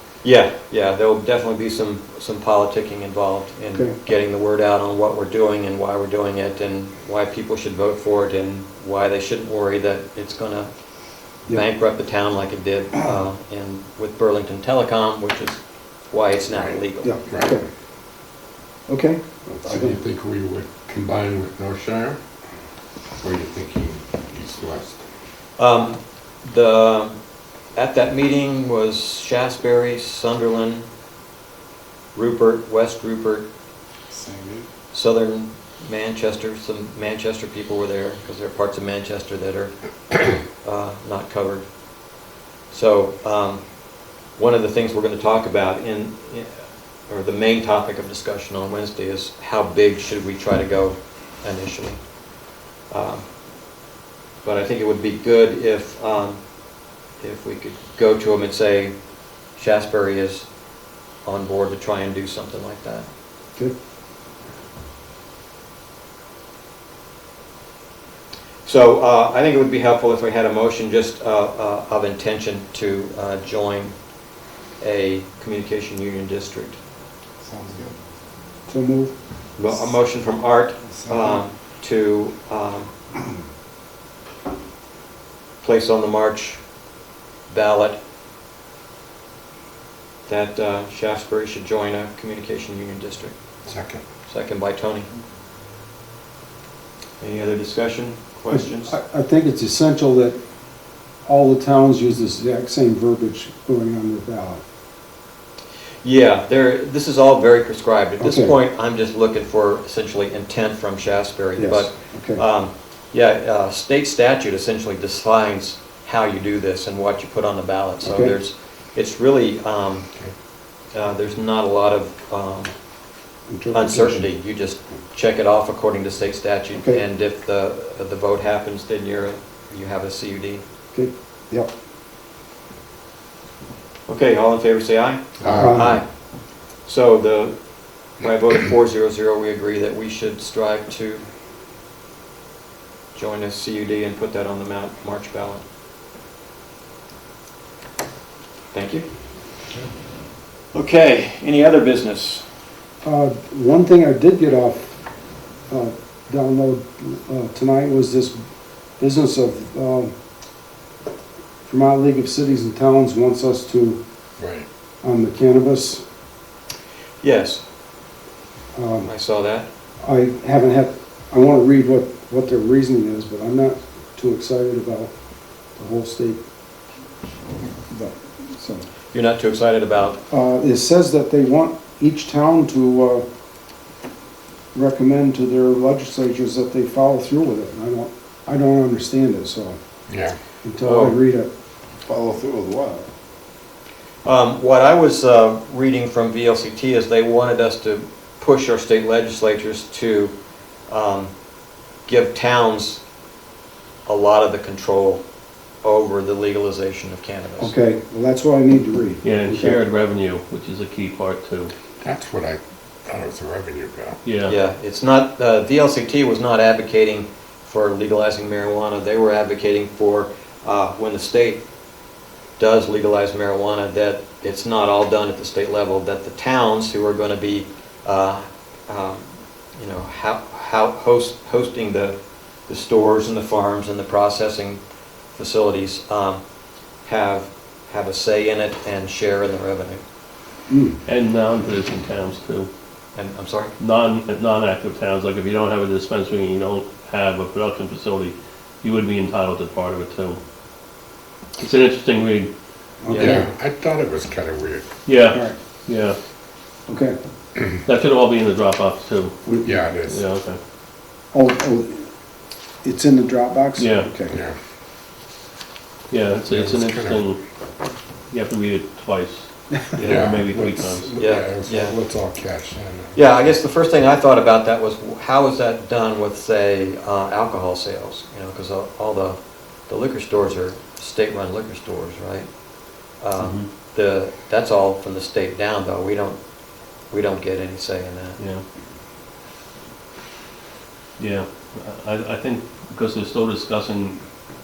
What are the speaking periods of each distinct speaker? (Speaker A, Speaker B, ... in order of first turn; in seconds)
Speaker A: 0.2-10.7, 11.3-17.1, 25.6-27.2, 27.8-30.9, 32.1-33.5, 34.9-41.6, 42.7-46.5, 47.1-52.0, 52.9-53.2, 54.4-56.4, 57.2-58.9, 59.5-60.5, 61.2-63.1, 68.7-74.0, 74.8-76.8, 79.6-82.9, 85.6-86.6, 87.5-88.0, 90.3-93.3, 94.3-95.1, 97.2-99.0, 106.0-120.1, 120.9-122.7, 123.7-130.6, 134.1-136.0, 136.8-137.6, 138.2-141.2, 143.1-145.6, 148.7-149.1, 150.7-152.4, 167.2-167.6, 169.0-169.7, 179.1-180.2, 190.8-191.2, 194.2-200.3, 200.9-201.3, 202.1-203.0, 204.1-205.2, 205.8-207.7, 214.5-221.6, 222.6-234.8, 235.3-236.4, 237.0-240.0, 243.1-243.7, 253.1-253.4, 270.0-270.3, 271.2-272.0, 273.2-286.4, 287.1-288.4
Speaker B: 16.5-17.6, 19.6-22.2, 23.2-25.0, 93.7-94.0, 135.4-135.8, 164.4-164.7, 190.1-190.4, 212.0-214.2, 253.1-254.9, 259.6-260.2, 264.3-264.6, 266.5-267.2, 270.0-273.2
Speaker C: 17.0-17.7, 18.9-20.0, 78.7-79.1, 98.5-100.4, 101.3-104.6, 108.2-108.6, 111.6-112.4, 118.0-118.4, 123.5-124.3, 126.8-127.0, 130.9-131.7, 135.5-136.0, 153.0-155.0, 155.7-158.4, 159.0-160.1, 161.6-164.0, 165.0-166.0, 168.7-169.1, 170.0-175.1, 175.8-176.4, 177.9-178.8, 180.3-183.2, 184.7-189.8, 190.6-191.5, 207.6-209.8, 240.7-241.0, 253.0-253.5, 256.9-257.2, 261.3-262.1, 262.8-264.4
Speaker D: 34.1-34.7, 77.5-78.0, 80.9-81.4, 192.1-193.1
Speaker E: 209.2-211.7, 214.2-214.6, 241.1-242.7, 243.8-250.4, 251.6-252.5, 255.1-256.2, 257.9-259.4, 260.1-260.6, 263.8-264.1, 266.1-267.4, 268.3-271.1, 283.4-283.7, 288.4-288.6, 291.2-294.2